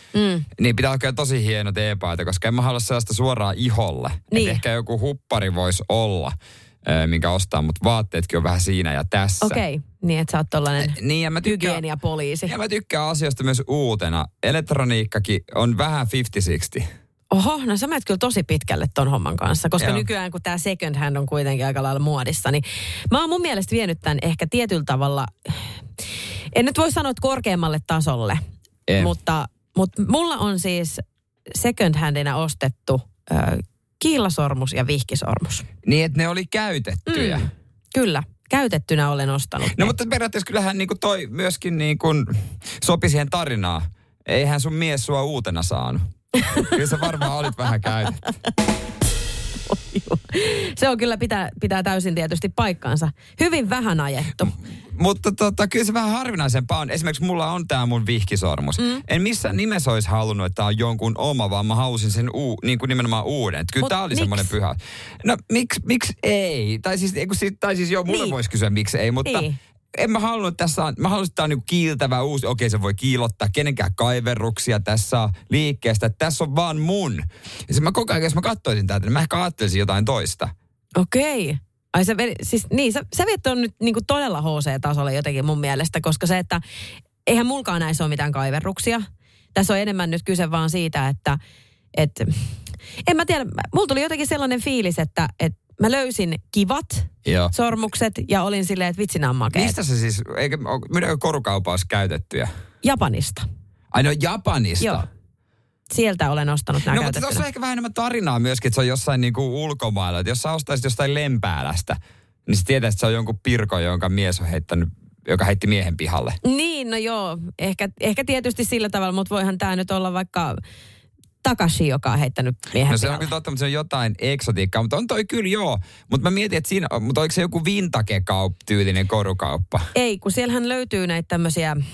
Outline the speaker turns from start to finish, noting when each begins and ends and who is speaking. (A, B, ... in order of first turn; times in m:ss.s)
0:00.1-0:00.5 A
0:00.6-0:09.6 B
0:04.3-0:04.6 A
0:09.4-0:12.5 A
0:10.8-0:11.8 B
0:12.5-0:16.9 B
0:17.3-0:25.6 A
0:19.8-0:20.1 B
0:26.5-0:28.4 A
0:28.9-0:29.1 B
0:29.0-0:35.7 A
0:35.8-0:37.5 B
0:37.1-0:40.0 A
0:39.7-0:46.0 B
0:46.4-0:46.8 A
0:46.6-0:48.2 B
0:49.7-0:54.6 A
0:54.9-1:20.5 B
0:58.8-0:59.0 A
1:03.8-1:04.5 A
1:08.1-1:08.4 A
1:09.2-1:09.6 A
1:21.0-1:26.6 A
1:27.3-1:31.4 A
1:32.0-1:32.4 A
1:33.1-1:39.8 A
1:37.2-1:37.5 B
1:39.5-1:42.5 B
1:42.8-1:43.4 A
1:43.9-1:45.1 B
1:44.8-1:45.1 A
1:45.9-1:47.5 A
1:46.9-1:56.4 B
1:56.4-2:00.6 A
2:01.4-2:03.3 A
2:02.8-2:09.9 B
2:10.0-2:11.8 A